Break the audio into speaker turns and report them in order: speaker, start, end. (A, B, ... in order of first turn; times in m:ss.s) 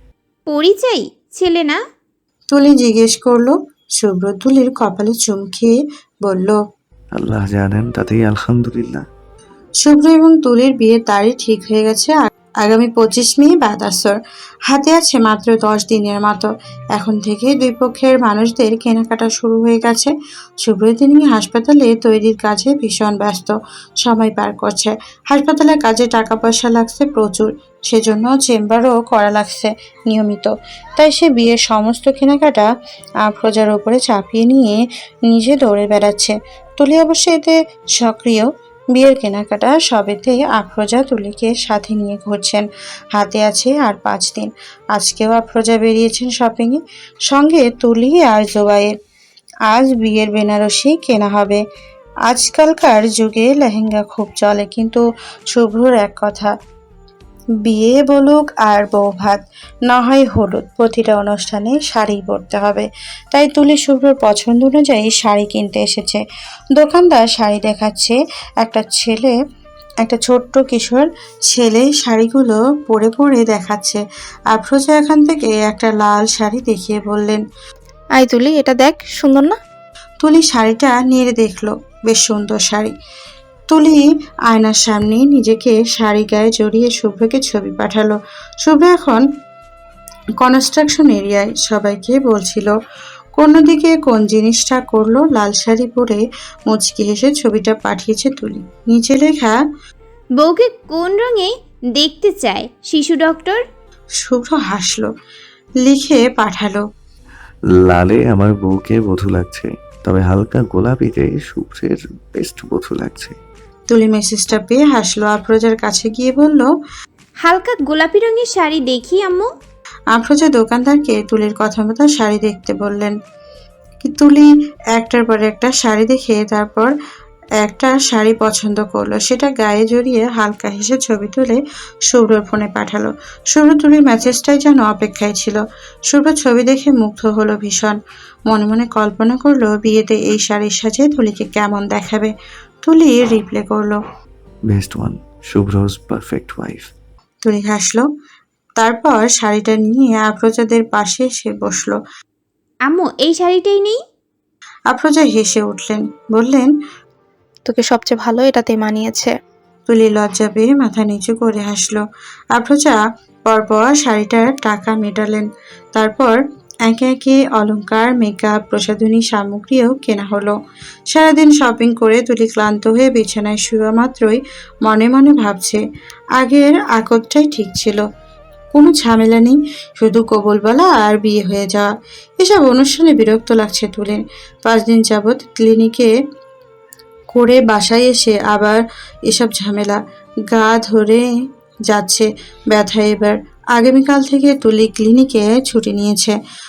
0:00.5-0:01.8 A
0:02.5-0:06.6 B
0:07.1-0:09.0 C
0:09.8-0:14.2 B
0:14.7-0:20.1 B
0:20.6-0:32.7 B
0:33.2-0:48.9 B
0:49.7-0:51.6 B
0:52.3-0:56.5 B
0:57.6-1:06.2 B
1:06.8-1:09.3 B
1:10.0-1:17.4 B
1:18.2-1:19.6 D
1:20.2-1:22.9 B
1:23.7-1:29.2 B
1:30.4-1:32.7 B
1:33.4-1:39.6 B
1:40.4-1:43.6 A
1:44.2-1:45.1 B
1:45.8-1:46.8 B
1:47.9-1:53.3 C
1:53.9-1:56.7 B
1:57.4-1:59.5 A
2:00.1-2:03.1 B
2:04.0-2:06.9 B
2:07.6-2:18.0 B
2:18.5-2:22.3 B
2:22.8-2:24.0 B
2:24.7-2:26.9 C
2:27.4-2:28.0 B
2:28.8-2:32.0 B
2:32.8-2:34.0 A
2:34.9-2:36.7 B
2:37.7-2:39.3 D
2:39.9-2:42.0 B
2:42.5-2:50.5 B
2:51.1-2:55.8 B
2:56.4-2:58.0 B
2:58.7-3:06.1 B
3:07.3-3:10.0 B
3:10.5-3:11.2 B
3:11.9-3:16.3 B